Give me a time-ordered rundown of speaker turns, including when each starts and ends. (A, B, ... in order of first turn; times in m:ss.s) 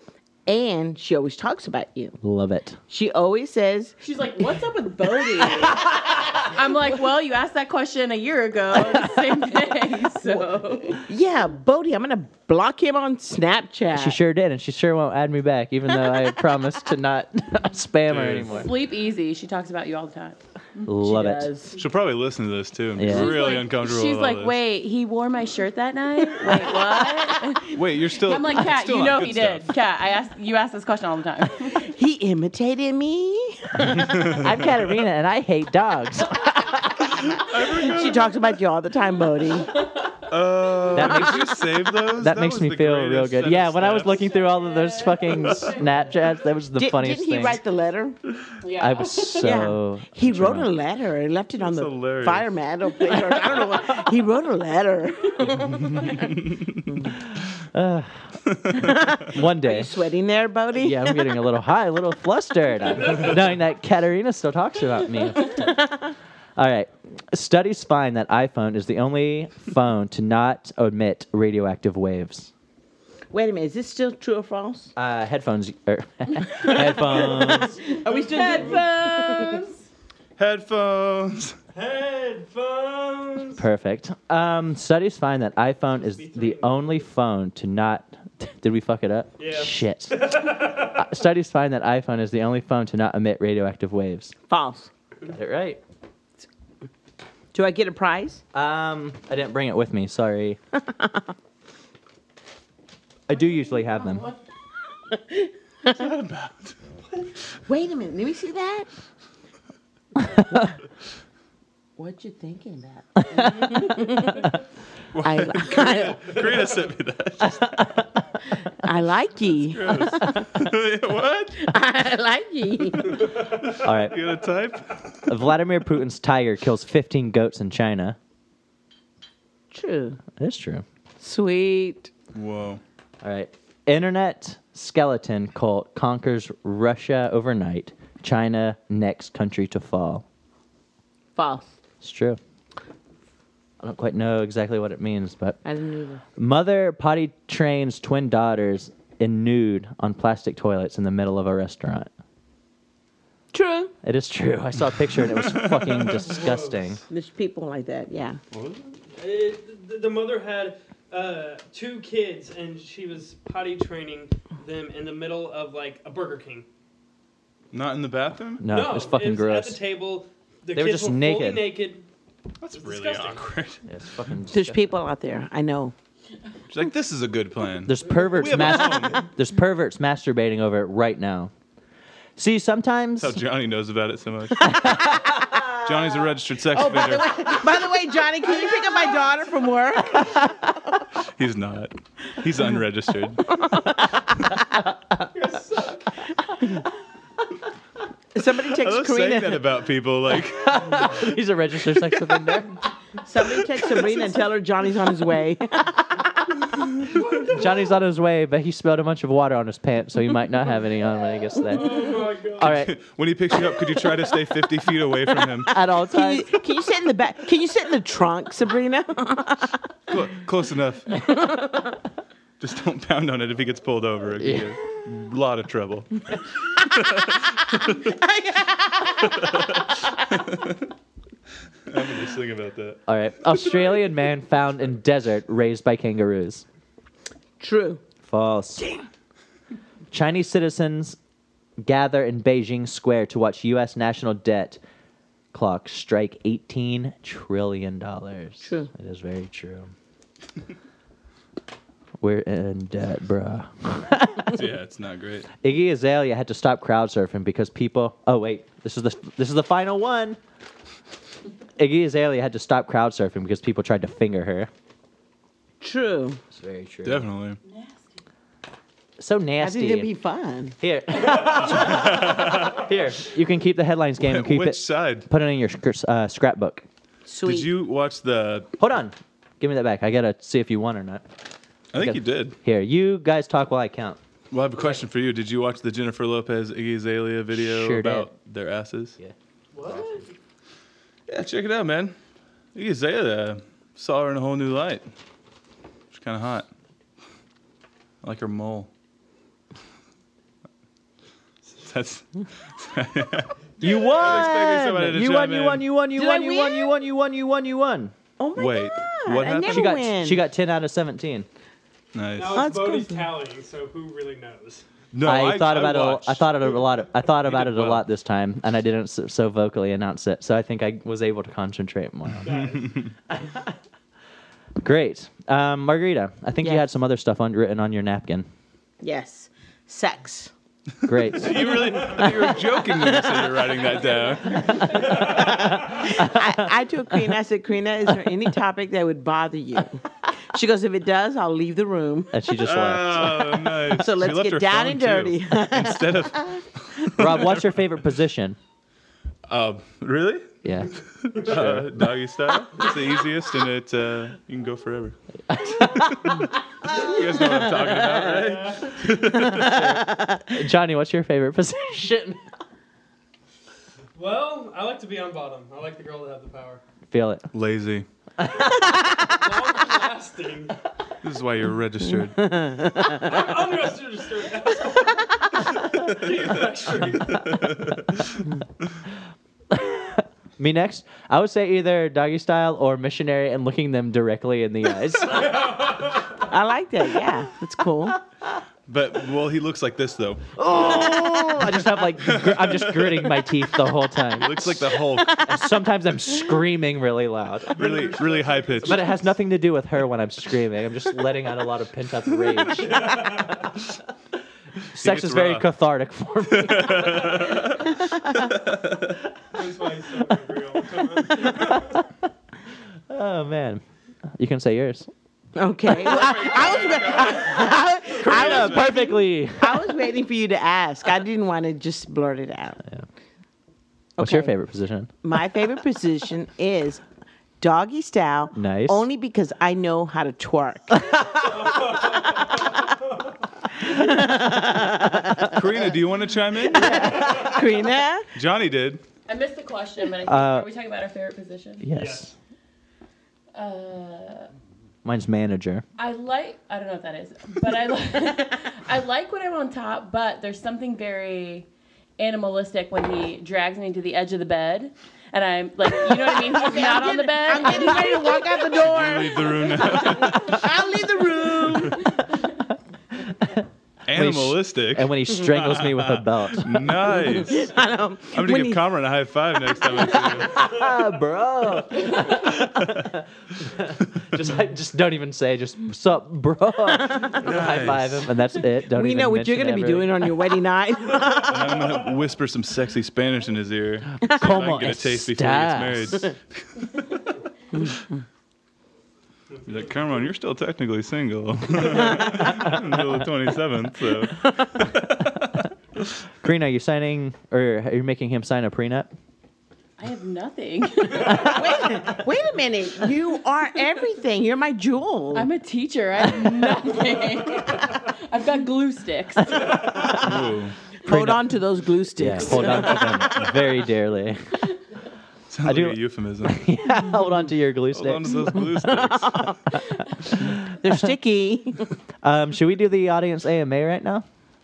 0:00.4-0:02.2 A
0:02.2-0:02.8 B
0:02.9-0:04.0 A
0:04.0-0:11.0 C
0:10.9-0:14.2 A
0:13.9-0:18.7 B
0:18.1-0:18.6 D
0:18.5-0:21.8 C
0:20.8-0:21.5 B
0:21.8-0:24.6 D
0:22.9-0:23.4 B
0:23.0-0:31.9 C
0:27.7-0:29.7 D
0:31.8-0:34.4 A
0:33.9-0:37.2 B
0:34.1-0:34.4 D
0:37.1-0:38.3 D
0:37.7-0:39.8 A
0:40.3-0:44.3 D
0:40.9-0:47.6 B
0:44.1-0:45.9 C
0:46.8-0:48.2 A
0:48.6-0:49.6 C
0:48.8-0:50.7 B
0:49.4-0:56.3 A
0:51.6-0:52.5 D
0:57.7-0:59.9 B
0:58.7-1:01.2 A
1:00.7-1:05.8 B
1:06.6-1:12.5 B
1:13.3-1:14.9 A
1:15.0-1:17.8 B
1:16.9-1:19.6 A
1:17.9-1:18.8 E
1:18.3-1:19.7 C
1:20.4-1:21.6 D
1:21.7-1:23.6 E
1:23.6-1:34.3 B
1:26.1-1:26.9 E
1:29.4-1:31.1 E
1:34.5-1:34.9 A
1:35.3-1:35.8 B
1:37.5-1:38.4 A
1:38.5-1:40.6 B
1:40.9-1:41.2 A
1:43.3-1:44.3 B
1:43.9-1:44.3 C
1:45.1-1:45.9 A
1:45.8-1:46.8 D
1:47.7-1:48.9 A
1:52.0-1:54.5 A
1:55.1-1:57.7 D
1:55.2-1:56.4 A
1:58.8-2:00.4 A
1:59.7-2:01.6 D
2:01.5-2:03.3 A
2:03.6-2:05.3 D
2:03.8-2:04.2 B
2:05.3-2:08.2 B
2:09.7-2:10.2 A
2:10.4-2:10.8 B
2:11.2-2:12.1 A
2:12.3-2:12.8 D
2:13.2-2:20.2 B
2:21.4-2:21.7 A
2:22.0-2:22.4 B
2:23.8-2:25.6 B
2:25.6-2:26.2 A
2:26.4-2:32.1 B
2:33.5-2:33.9 A
2:34.0-2:37.0 B
2:35.4-2:36.2 D
2:36.3-2:36.9 E
2:37.1-2:38.4 A
2:38.5-2:38.9 D
2:39.1-2:46.6 E
2:47.7-2:48.6 D
2:48.6-2:49.8 B
2:48.7-2:52.0 E
2:50.7-2:51.7 B
2:52.6-2:53.8 D
2:52.7-2:53.4 E
2:53.9-2:54.8 B
2:54.5-2:55.9 A
2:56.7-2:59.2 D
2:57.8-3:01.5 B
3:02.4-3:03.4 B
3:03.2-3:05.2 D
3:04.8-3:05.8 A
3:05.8-3:07.4 D
3:06.7-3:10.7 A
3:08.6-3:09.2 E
3:11.4-3:13.6 D
3:15.3-3:16.1 E
3:18.3-3:19.6 A
3:18.7-3:21.1 D
3:20.6-3:22.8 B
3:23.2-3:26.5 A
3:27.1-3:27.9 E
3:27.5-3:32.9 B
3:31.7-3:32.7 E
3:32.6-3:35.7 D
3:35.7-3:36.5 B
3:35.7-3:39.8 A
3:40.1-3:41.1 D
3:41.3-3:41.9 A
3:42.6-3:48.0 D
3:44.4-3:44.7 B
3:48.0-3:49.4 A
3:49.3-3:50.8 D
3:51.9-3:53.0 D
3:53.1-3:56.6 B
3:57.6-3:58.0 A
3:58.2-3:58.9 B
4:00.1-4:01.2 B
4:01.8-4:04.8 B
4:05.5-4:09.9 B
4:08.6-4:08.9 A
4:12.2-4:14.6 B
4:14.4-4:15.5 D
4:15.6-4:20.4 B
4:21.8-4:24.7 B
4:25.8-4:26.4 A
4:26.5-4:27.2 B
4:27.0-4:27.6 D
4:27.6-4:28.2 C
4:29.2-4:30.1 B
4:29.6-4:30.8 A
4:30.8-4:36.8 B
4:31.5-4:32.9 D
4:34.2-4:35.3 D
4:37.2-4:37.7 A
4:37.4-4:38.7 D
4:38.8-4:41.2 B
4:41.9-4:42.6 D
4:41.9-4:44.2 B
4:44.5-4:49.2 D
4:47.5-4:48.3 B
4:49.7-4:50.3 E
4:51.3-4:52.1 D
4:52.7-4:55.1 D
4:56.1-4:56.7 D
4:58.2-4:58.9 D
5:01.8-5:05.8 D
5:03.8-5:08.1 B
5:06.1-5:06.9 A
5:08.4-5:10.4 A
5:08.6-5:10.0 D
5:09.6-5:11.5 B
5:12.1-5:12.6 D
5:12.3-5:14.8 E
5:12.5-5:13.3 A
5:15.1-5:18.0 D
5:15.2-5:22.5 B
5:22.4-5:23.0 E
5:24.8-5:28.5 B
5:26.6-5:26.9 A
5:29.0-5:30.5 A
5:31.0-5:32.2 B
5:31.1-5:35.3 D
5:34.9-5:35.7 E
5:35.0-5:36.6 B
5:35.2-5:42.4 A
5:42.3-5:43.7 B
5:42.6-5:47.7 D
5:43.8-5:46.6 A
5:47.2-5:48.6 B
5:49.5-5:50.5 D
5:50.6-5:52.1 B
5:51.2-5:55.2 D
5:55.5-5:56.4 B
5:56.9-6:00.0 D
5:58.2-5:59.0 E
5:59.7-6:00.4 A
6:00.5-6:02.4 B
6:04.1-6:06.8 E
6:07.1-6:07.5 B
6:07.5-6:08.1 D
6:08.4-6:09.0 B
6:08.7-6:10.7 E
6:11.2-6:12.6 D
6:12.4-6:13.3 A
6:13.0-6:17.5 E
6:17.0-6:18.4 D
6:19.7-6:25.7 B
6:25.4-6:26.4 E
6:26.4-6:28.2 A
6:28.9-6:33.6 D
6:30.6-6:37.8 B
6:34.3-6:35.5 D
6:37.7-6:39.2 E
6:37.8-6:39.0 D
6:38.8-6:43.6 B
6:42.8-6:43.7 E
6:44.9-6:47.6 B
6:44.9-6:45.7 D
6:46.4-6:49.1 D
6:49.5-6:52.0 E
6:51.3-6:52.0 B
6:53.1-6:53.8 B
6:54.3-6:55.1 B
6:55.6-7:02.8 A
6:56.0-6:59.0 D
6:58.0-6:59.9 B
7:04.2-7:04.5 A
7:04.2-7:05.1 B
7:05.2-7:07.0 A
7:07.6-7:11.1 A
7:08.5-7:09.0 B
7:11.4-7:13.3 E
7:13.8-7:15.6 A
7:15.4-7:17.1 D
7:16.7-7:18.3 A
7:17.1-7:17.4 E
7:18.3-7:19.0 D
7:19.3-7:21.8 C
7:20.2-7:20.7 B
7:21.8-7:22.3 B
7:21.9-7:22.3 E
7:23.5-7:24.5 C
7:25.0-7:25.8 B
7:26.0-7:38.6 C
7:36.3-7:42.1 A
7:38.8-7:40.6 D
7:44.1-7:47.7 D
7:44.1-7:46.9 B
7:47.4-7:48.8 A
7:48.3-7:50.6 D
7:50.6-7:52.1 A
7:50.7-8:00.3 B
7:57.3-7:58.3 D
7:58.9-8:01.9 A
8:01.4-8:07.3 D
8:04.2-8:06.2 B
8:07.7-8:08.1 A
8:09.6-8:15.6 D
8:16.4-8:19.1 B
8:20.0-8:22.1 C
8:21.3-8:25.5 A
8:25.3-8:29.9 C
8:30.2-8:30.7 D
8:31.0-8:33.0 A
8:31.0-8:31.5 B
8:32.2-8:34.6 B
8:35.5-8:36.6 D
8:35.6-8:38.7 B
8:37.9-8:39.6 D
8:39.0-8:39.6 A
8:40.4-8:41.0 B
8:40.6-8:41.9 A
8:42.2-8:44.2 B